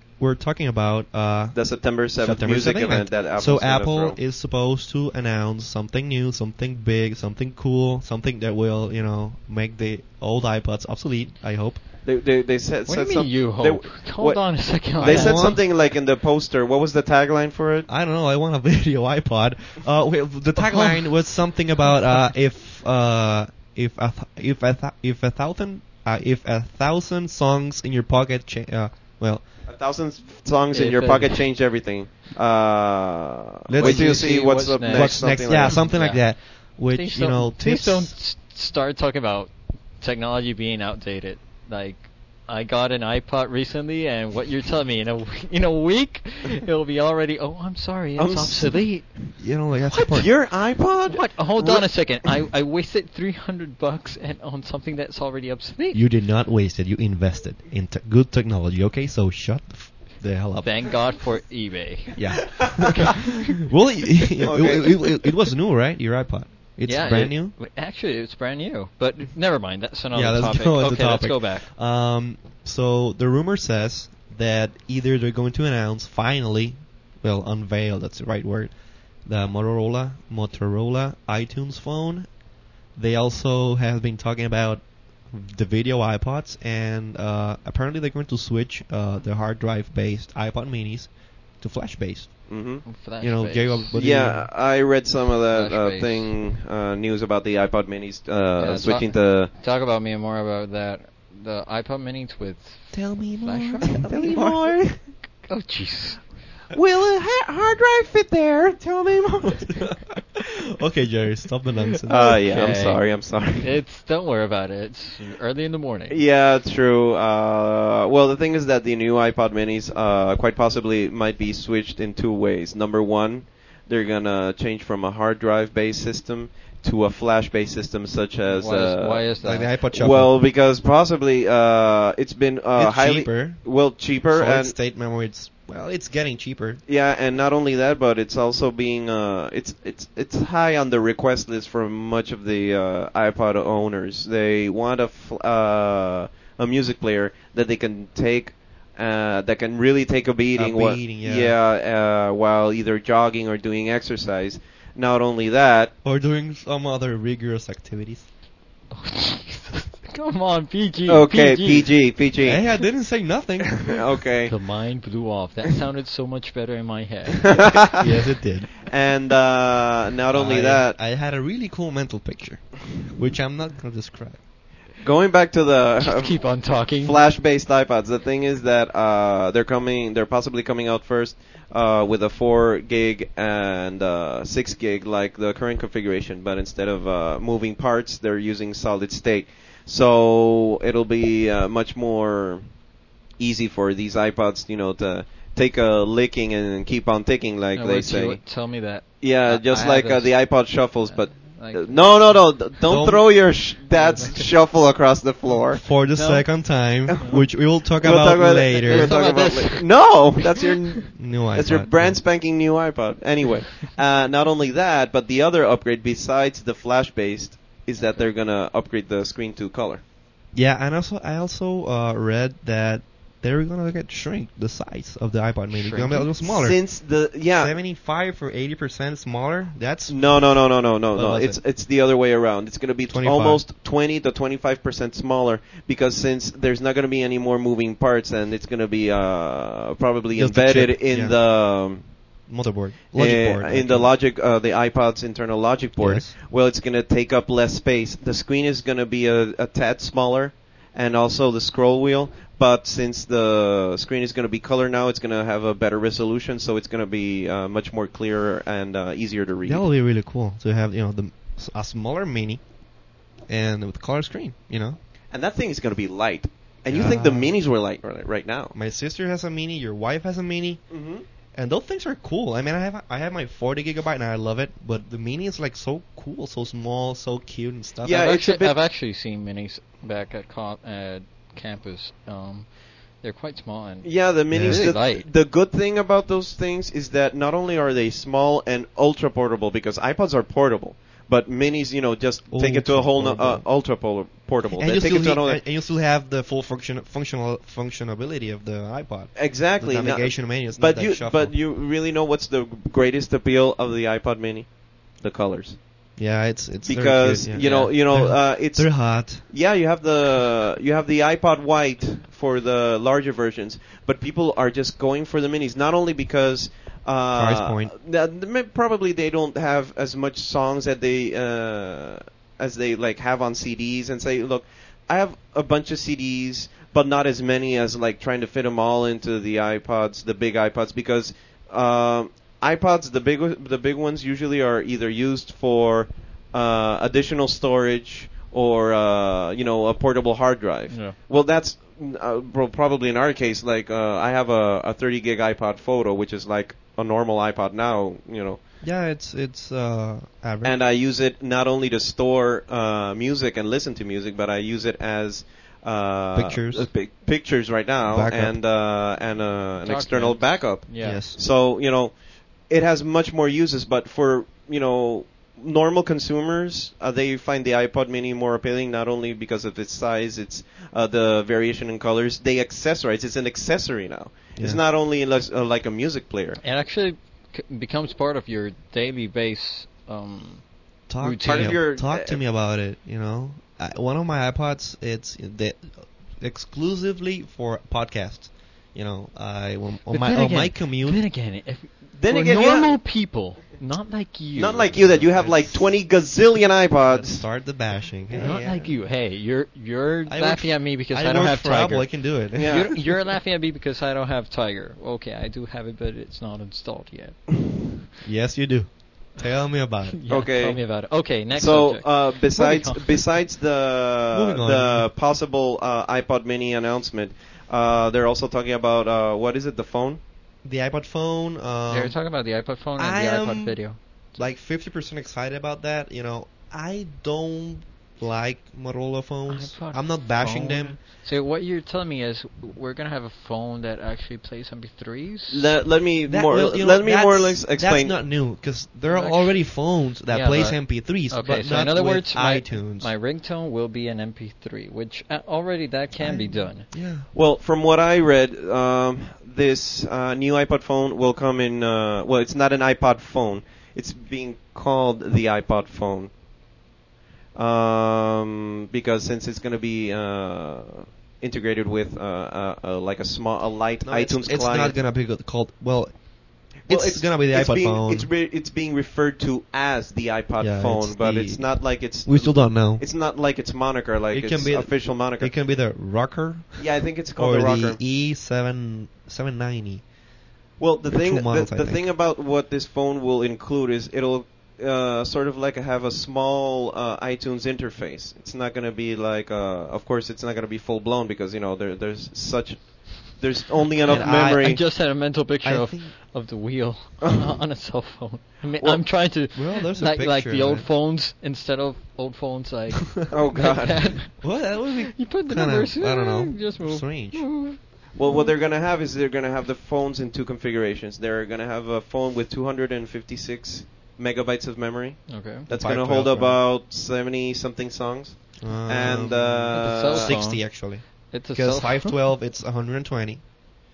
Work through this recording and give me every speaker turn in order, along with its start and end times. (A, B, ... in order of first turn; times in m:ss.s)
0:00.2-0:11.8 A
0:01.5-0:04.2 B
0:12.0-0:17.9 B
0:12.9-0:15.6 C
0:15.0-0:15.6 A
0:17.9-0:29.5 A
0:20.6-0:21.1 C
0:29.7-0:35.8 B
0:30.7-0:31.4 C
0:33.7-0:38.1 A
0:33.8-0:50.3 C
0:48.2-0:49.2 B
0:49.4-0:50.3 A
0:50.1-0:52.3 B
0:51.1-0:56.0 C
0:55.9-1:01.0 A
1:00.6-1:03.4 C
1:02.2-1:07.5 A
1:02.6-1:02.8 B
1:04.4-1:05.3 B
1:06.8-1:11.7 C
1:10.1-1:22.3 A
1:23.0-1:32.6 A
1:32.5-1:32.9 B
1:32.8-1:34.0 C
1:33.2-1:34.5 A
1:33.9-1:39.5 B
1:35.5-1:36.3 C
1:38.6-1:44.0 C
1:42.9-1:44.7 A
1:43.9-1:45.0 B
1:45.4-1:46.3 C
1:46.7-1:49.9 B
1:49.7-1:52.4 A
1:52.1-1:53.7 B
1:52.2-1:56.2 C
1:56.1-2:09.3 B
2:08.5-2:09.7 C
2:09.4-2:10.4 A
2:09.9-2:14.8 B
2:12.8-2:13.7 A
2:14.3-2:16.8 A
2:16.9-2:35.9 B
2:30.6-2:31.6 A
2:36.0-2:38.3 A
2:38.9-2:42.0 C
2:41.1-2:42.6 B
2:42.4-2:44.0 A
2:43.8-2:44.6 B
2:44.5-2:47.8 C
2:47.5-2:48.0 B
2:48.0-2:48.7 A
2:48.8-2:51.0 B
2:50.3-2:54.4 A
2:55.0-3:12.8 B
2:56.0-2:57.2 C
3:13.4-3:18.4 B
3:17.8-3:22.5 C
3:19.2-3:25.8 B
3:22.9-3:23.3 A
3:23.9-3:24.5 C
3:25.7-3:29.2 A
3:26.1-3:27.4 C
3:28.0-3:40.0 B
3:28.8-3:30.3 C
3:31.2-3:32.2 A
3:40.5-3:51.6 A
3:45.7-3:46.3 C
3:46.4-3:47.8 B
3:50.1-4:02.2 B
3:53.1-3:53.6 A
4:00.4-4:01.4 A
4:02.5-4:04.1 A
4:03.2-4:19.8 B
4:06.0-4:06.3 A
4:19.6-4:22.6 A
4:23.5-4:25.0 A
4:25.3-4:28.7 B
4:26.9-4:27.5 A
4:28.7-4:30.8 A
4:30.9-4:31.2 B
4:31.5-4:38.3 A
4:38.0-4:38.8 B
4:38.1-4:45.3 C
4:44.0-4:55.6 B
4:44.5-4:44.9 A
4:52.5-4:53.7 A
4:54.7-5:01.5 A
4:59.4-5:05.8 B
5:06.2-5:09.4 A
5:06.8-5:48.6 B
5:07.6-5:07.9 C
5:17.3-5:17.9 A
5:40.9-5:41.2 C
5:48.8-5:50.8 A
5:50.6-6:16.6 B
5:56.4-5:56.9 A
5:58.1-5:58.6 A
5:59.8-6:01.2 C
6:01.0-6:01.4 A
6:14.6-6:14.8 A
6:16.6-6:21.8 C
6:21.1-6:31.2 A
6:21.4-6:22.4 B
6:30.1-6:35.2 C
6:32.2-6:33.0 B
6:34.6-6:37.6 B
6:35.1-6:36.0 A
6:37.1-6:39.0 A
6:38.3-6:47.9 C
6:40.3-6:43.0 A
6:42.6-6:43.0 B
6:48.2-6:50.2 A
6:50.1-6:53.2 C
6:50.3-7:00.2 B
6:54.3-6:55.1 A
7:00.6-7:02.2 A
7:01.9-7:04.4 C
7:03.0-7:03.8 A
7:04.3-7:11.0 A
7:09.5-7:15.7 C
7:15.5-7:18.2 B
7:16.3-7:23.1 A
7:19.1-7:26.9 C
7:26.2-7:27.3 A
7:27.3-7:36.3 B
7:37.6-7:45.0 B
7:44.0-7:48.3 A
7:46.8-7:55.5 B
7:50.6-7:53.0 A
7:54.3-8:00.1 A
7:56.8-7:58.0 B
8:00.8-8:14.8 B
8:01.1-8:02.1 A
8:14.0-8:28.5 C
8:14.1-8:16.2 A
8:18.8-8:19.0 B
8:19.5-8:20.9 A
8:23.3-8:24.3 B
8:24.4-8:27.6 A
8:28.1-8:40.4 B
8:35.3-8:35.7 C
8:35.7-8:36.6 A
8:38.6-8:43.5 A
8:39.7-8:42.2 C